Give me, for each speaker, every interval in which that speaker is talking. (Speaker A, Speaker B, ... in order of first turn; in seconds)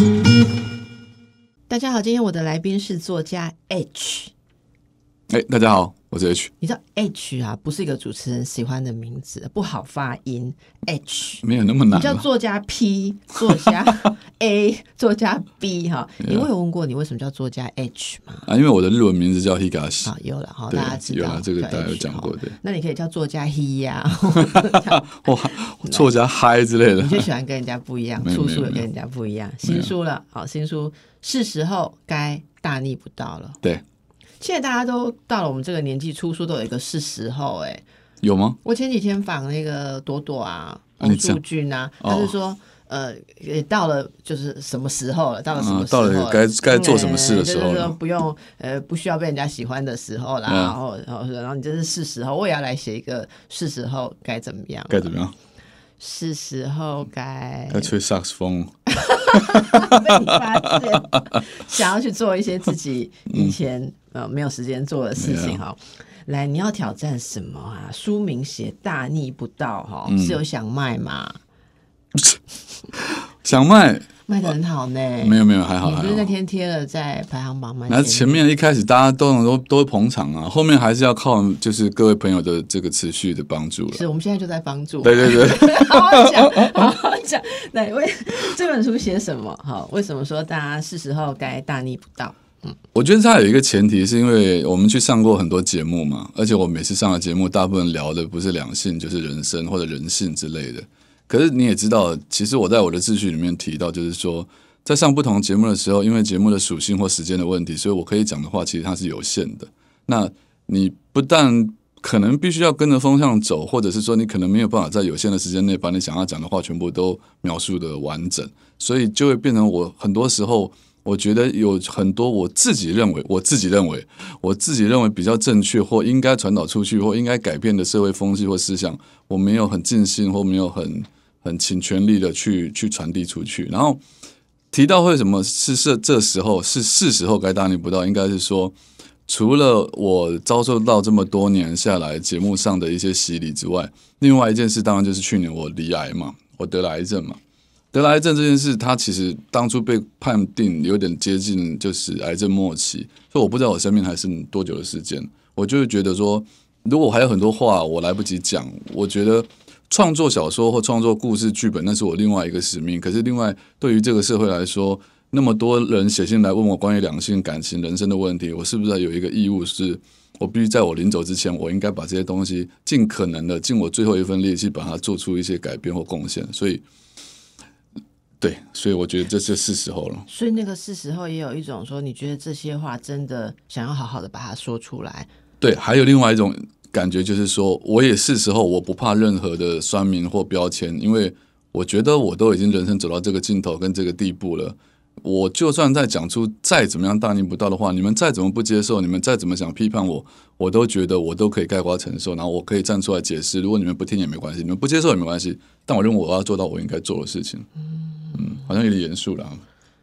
Speaker A: 1.7-4.3, 6.6-18.5, 20.0-26.1, 27.0-33.6, 34.4-37.8, 38.6-55.1, 56.0-57.9, 58.9-71.4, 74.3-78.4, 83.9-92.8, 180.3-185.3
Speaker B: 5.3-6.5, 11.4-12.2, 16.2-16.5, 18.4-20.1, 20.7-22.5, 24.4-27.3, 28.2-28.8, 29.6-29.9, 38.2-38.6, 41.0-41.4, 42.0-42.3, 45.5-47.9, 50.5-50.7, 54.9-55.3, 57.7-61.4, 63.3-63.5, 65.2-65.6, 70.0-70.4, 72.9-74.1, 75.2-76.3, 77.9-84.0, 85.0-86.9, 92.9-134.0, 134.7-138.7, 139.3-147.4, 147.9-176.8, 178.4-180.2, 185.6-207.7, 208.3-209.6